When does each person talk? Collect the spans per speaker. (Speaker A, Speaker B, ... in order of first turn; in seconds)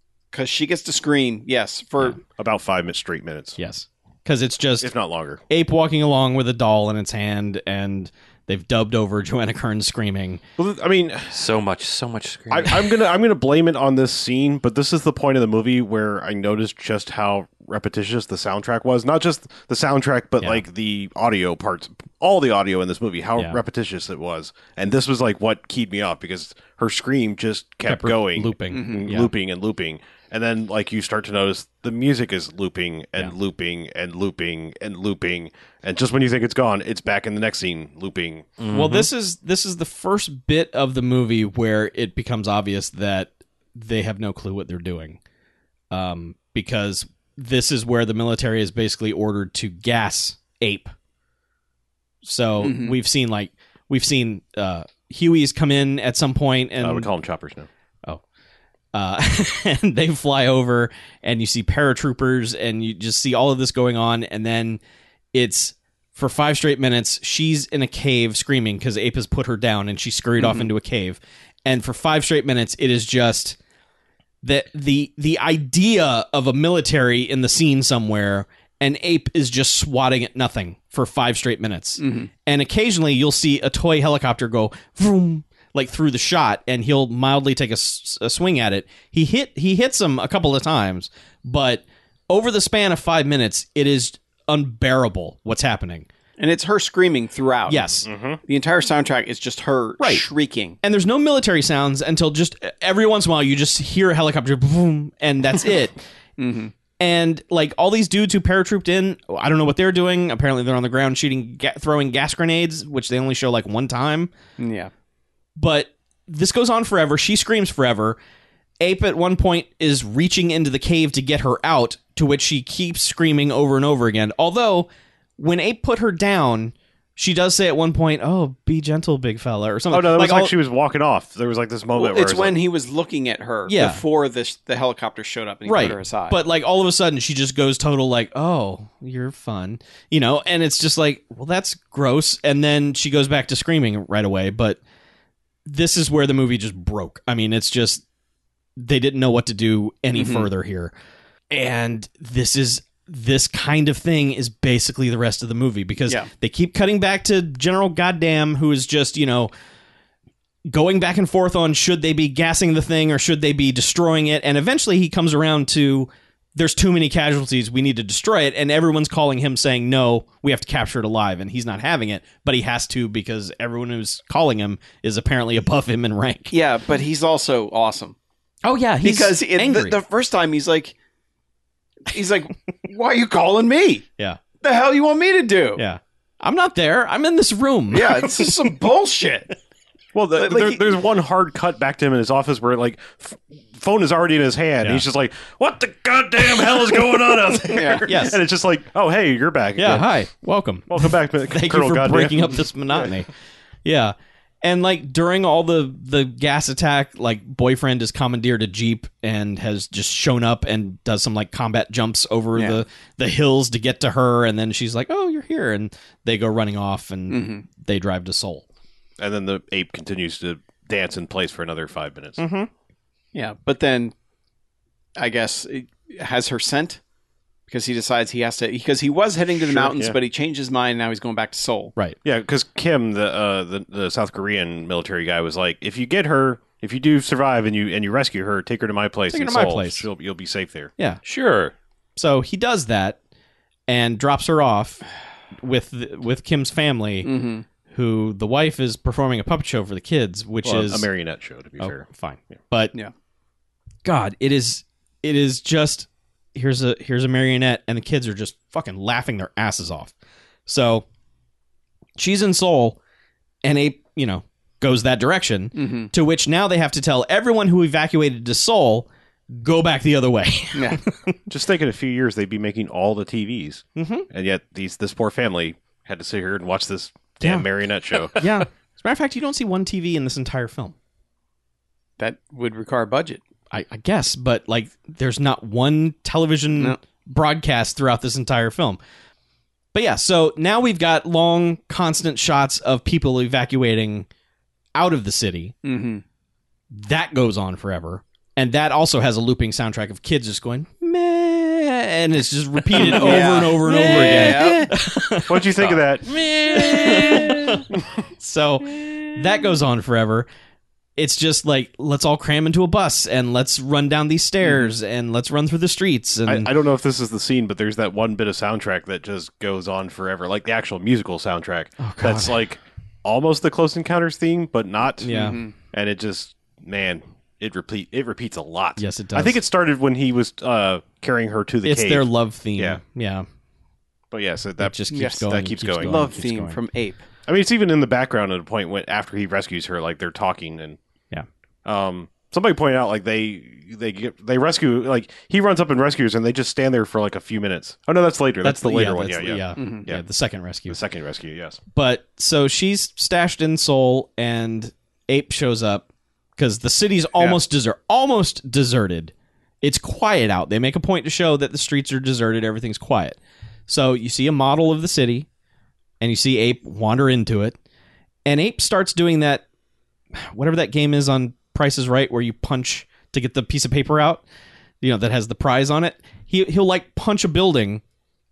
Speaker A: 0.3-2.2, 28.7-29.1, 52.6-52.9, 70.4-70.7, 82.0-82.3, 96.4-100.8, 106.4-106.7, 114.6-114.9, 131.9-136.4, 150.1-150.5, 176.5-178.1, 179.0-180.9, 182.1-184.1, 184.6-185.8, 187.9-189.5, 190.3-190.8, 197.7-198.1, 212.6-212.8, 217.3-217.6, 223.3-224.1, 225.2-227.0, 227.7-231.9, 247.2-247.6, 265.7-266.1, 270.7-271.0, 282.2-283.4, 295.8-296.2, 302.9-304.9, 325.3-325.7, 335.1-337.2, 349.8-350.0
Speaker B: 2.4-3.6, 4.8-5.4, 10.6-11.5, 12.5-38.6, 56.8-57.7, 98.0-98.4, 129.9-132.6, 190.1-200.1, 200.9-203.1, 219.2-222.4, 229.7-230.2, 232.2-240.9, 250.6-252.1, 271.5-278.4, 305.5-306.5, 316.4-325.3, 325.9-333.0, 334.3-336.1, 337.5-341.0, 341.8-350.2, 350.9-351.8
Speaker C: 3.6-4.9, 5.5-10.4, 27.8-29.3, 38.7-45.2, 45.9-50.9, 52.2-57.1, 58.9-64.8, 65.3-73.6, 74.4-96.1, 97.7-98.1, 100.0-100.2, 100.8-106.0, 107.0-114.3, 115.5-118.2, 118.8-130.5, 133.7-134.0, 135.7-144.8, 145.7-148.0, 148.8-150.9, 151.5-159.5, 160.7-176.5, 178.6-179.9, 185.8-188.5, 198.0-198.4, 199.8-203.3, 203.8-218.6, 222.4-222.7, 239.3-240.1, 242.2-243.2, 243.9-245.0, 245.6-247.3, 247.9-251.1, 251.8-252.9, 254.0-260.1, 260.7-261.0, 262.2-263.0, 263.6-271.4, 273.9-274.3, 277.4-277.7, 278.3-280.9, 283.7-289.0, 289.9-294.3, 294.9-295.7, 296.9-305.8, 306.7-307.9, 308.4-310.5, 311.2-316.7, 322.0-322.6, 325.2-325.6, 329.0-329.6, 331.8-333.4, 334.8-336.8, 348.6-351.0, 351.9-363.4, 363.9-365.5, 366.2-367.8, 368.4-369.6, 370.3-374.4, 375.0-378.0
Speaker D: 11.3-12.8, 38.6-39.1, 241.2-241.7, 304.1-304.9, 305.8-307.9